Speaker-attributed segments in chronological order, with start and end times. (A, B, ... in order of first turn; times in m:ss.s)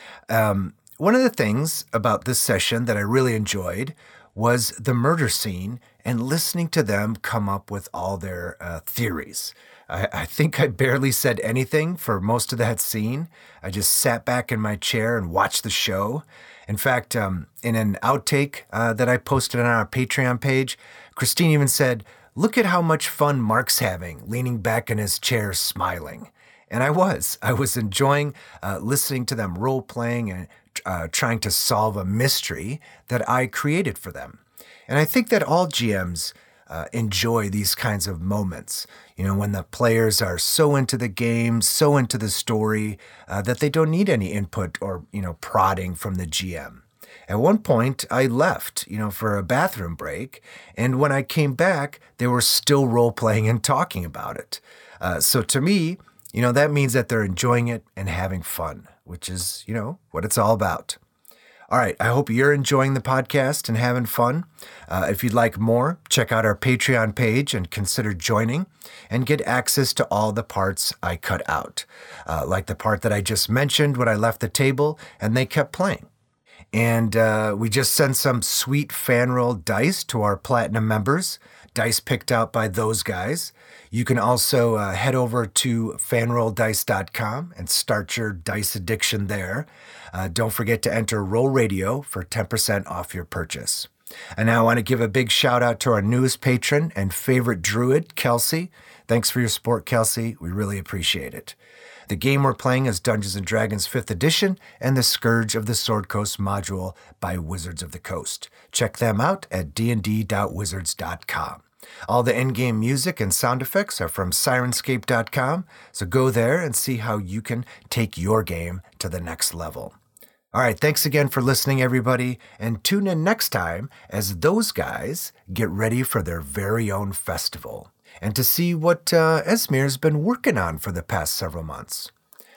0:00.3-1:01.0 A
1:01.7-1:16.1 A
1:16.7-1:41.6 A
1:42.1-2:00.0 A
2:00.5-2:12.1 A